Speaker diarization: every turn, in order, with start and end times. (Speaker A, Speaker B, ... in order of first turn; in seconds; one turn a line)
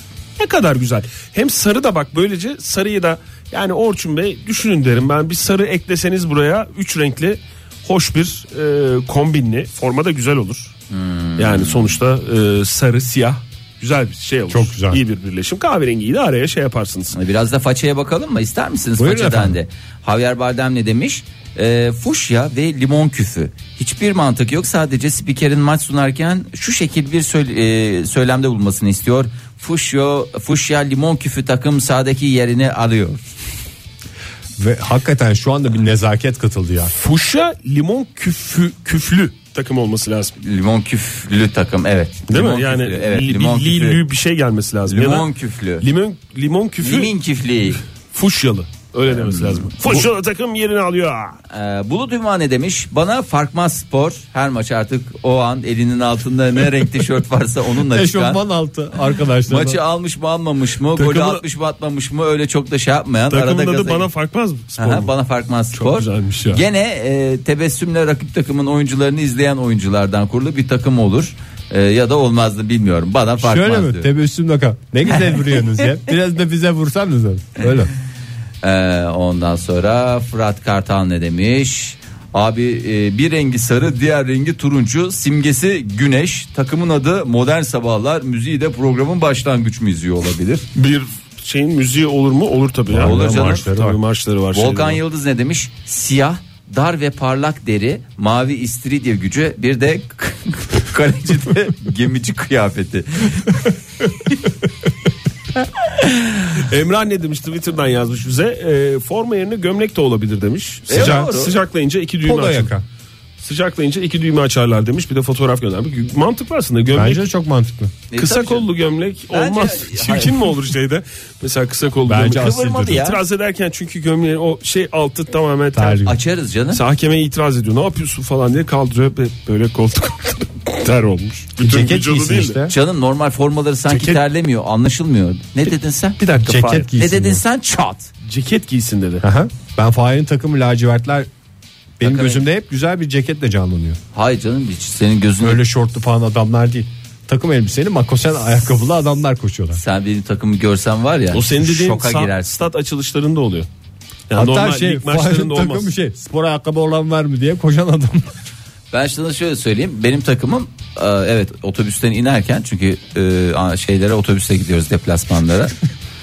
Speaker A: 0.4-10.7
Speaker B: 10.9-11.9
Speaker A: 11.4-17.1
Speaker C: 14.5-15.0
Speaker B: 17.1-33.2
Speaker C: 19.0-19.6
Speaker C: 34.6-36.9
Speaker A: 36.9-40.4
Speaker B: 40.4-44.0
Speaker A: 42.3-45.3
Speaker B: 44.9-45.8
Speaker A: 45.8-47.1
Speaker B: 46.8-47.8
Speaker A: 48.1-51.4
Speaker B: 49.1-50.0
Speaker B: 51.5-58.4
Speaker C: 57.9-59.8
Speaker B: 59.5-64.1
Speaker A: 61.0-61.4
Speaker A: 63.3-65.1
Speaker B: 64.8-74.1
Speaker A: 65.7-66.6
Speaker C: 73.4-77.9
Speaker B: 78.6-90.7
Speaker A: 90.8-95.0
Speaker C: 92.9-94.0
Speaker B: 93.0-93.7
Speaker B: 94.5-103.6
Speaker B: 105.9-106.5
Speaker A: 106.5-112.7
Speaker B: 110.9-111.6
Speaker C: 110.9-111.3
Speaker C: 112.2-112.8
Speaker A: 113.4-117.3
Speaker C: 116.9-117.9
Speaker B: 118.1-118.7
Speaker A: 118.2-126.0
Speaker B: 119.3-120.5
Speaker C: 122.1-123.1
Speaker B: 122.3-123.2
Speaker C: 125.7-126.2
Speaker B: 126.0-126.8
Speaker A: 126.7-132.6
Speaker C: 131.6-132.7
Speaker B: 132.7-136.2
Speaker A: 133.9-134.2
Speaker A: 136.2-136.9
Speaker C: 136.4-137.4
Speaker B: 136.9-138.1
Speaker A: 138.2-139.2
Speaker C: 139.2-141.3
Speaker C: 142.0-144.0
Speaker B: 142.0-142.4
Speaker B: 144.1-145.6
Speaker C: 145.4-149.8
Speaker B: 149.8-152.5
Speaker A: 151.3-153.7
Speaker A: 154.3-155.9
Speaker C: 154.3-158.3
Speaker B: 158.9-165.7